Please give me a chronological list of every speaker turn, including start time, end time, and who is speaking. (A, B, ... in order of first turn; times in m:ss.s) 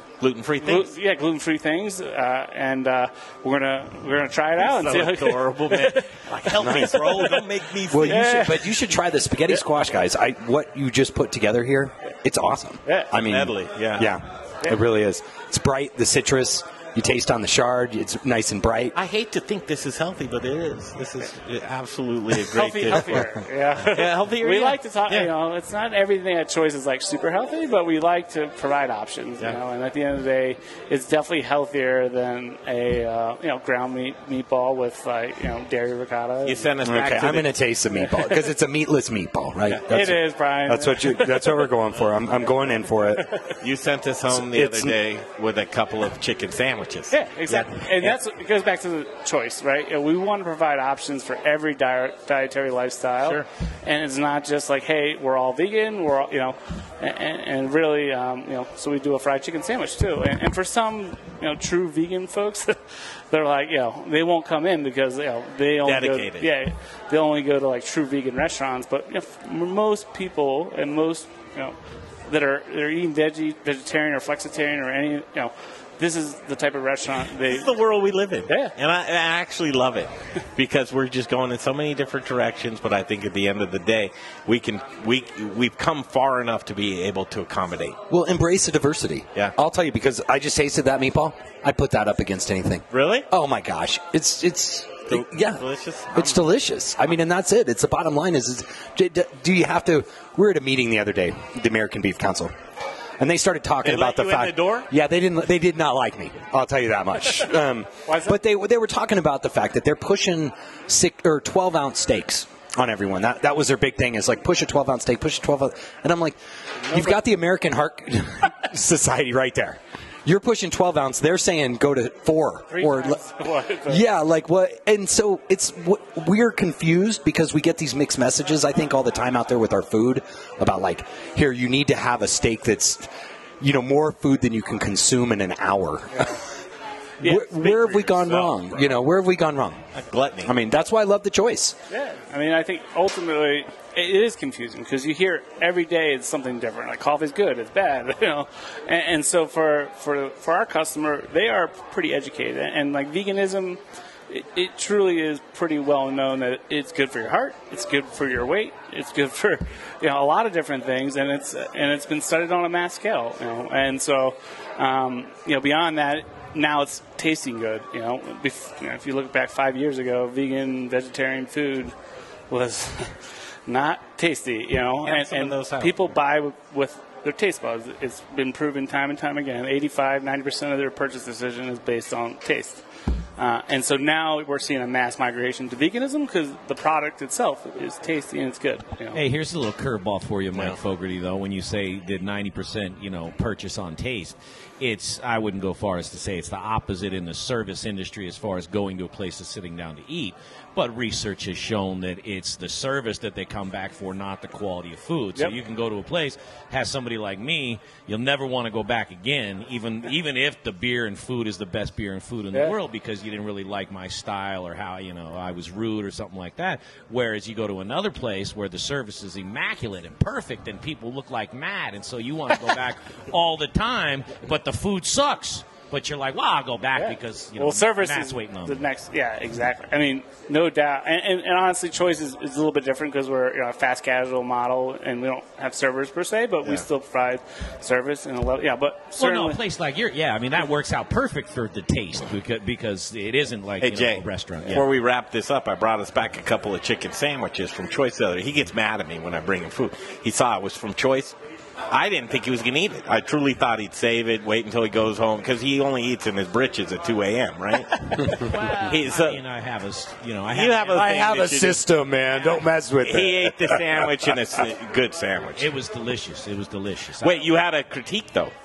0:00.2-0:00.9 A
0:00.6-0:06.0 B
0:04.6-0:08.5 A
0:06.6-0:07.2 C
0:06.8-0:07.4 B
0:07.9-0:18.9 C
0:08.1-0:08.7 B
0:13.2-0:14.1 A
0:19.0-0:25.3 A
0:22.5-0:36.7 B
0:36.4-0:37.6 A
0:36.8-0:43.2 C
0:39.9-0:41.6 B
0:43.6-0:48.2 A
0:44.3-0:45.0 C
0:47.1-1:02.8 B
1:03.3-1:11.8 B
1:05.8-1:06.5 A
1:12.3-1:17.7 B
1:17.3-1:28.0 A
1:18.5-1:18.7 B
1:28.1-1:42.5 C
1:32.9-1:33.3 A
1:35.1-1:36.5 A
1:43.2-1:56.4 C
1:43.8-1:44.9 A
1:48.1-1:48.4 B
1:56.9-1:57.2 B
1:56.9-2:03.2 C
2:02.7-2:04.0 B
2:03.9-2:13.1 C
2:13.6-2:16.3 C
2:17.2-2:17.7 B
2:17.2-2:19.8 C
2:17.6-2:19.1 A
2:20.0-2:20.5 A
2:20.4-2:21.8 C
2:21.9-2:52.0 B
2:52.5-3:02.8 B
2:55.0-2:56.2 A
3:03.4-3:09.2 B
3:09.1-3:48.8 D
3:10.5-3:10.8 A
3:47.0-3:59.6 B
3:59.2-4:04.9 D
4:03.8-4:11.4 A
4:11.9-4:19.4 A
4:18.3-4:21.0 D
4:20.5-4:21.8 A
4:20.9-4:24.1 C
4:22.5-4:25.7 A
4:25.6-4:27.5 D
4:27.2-4:28.5 A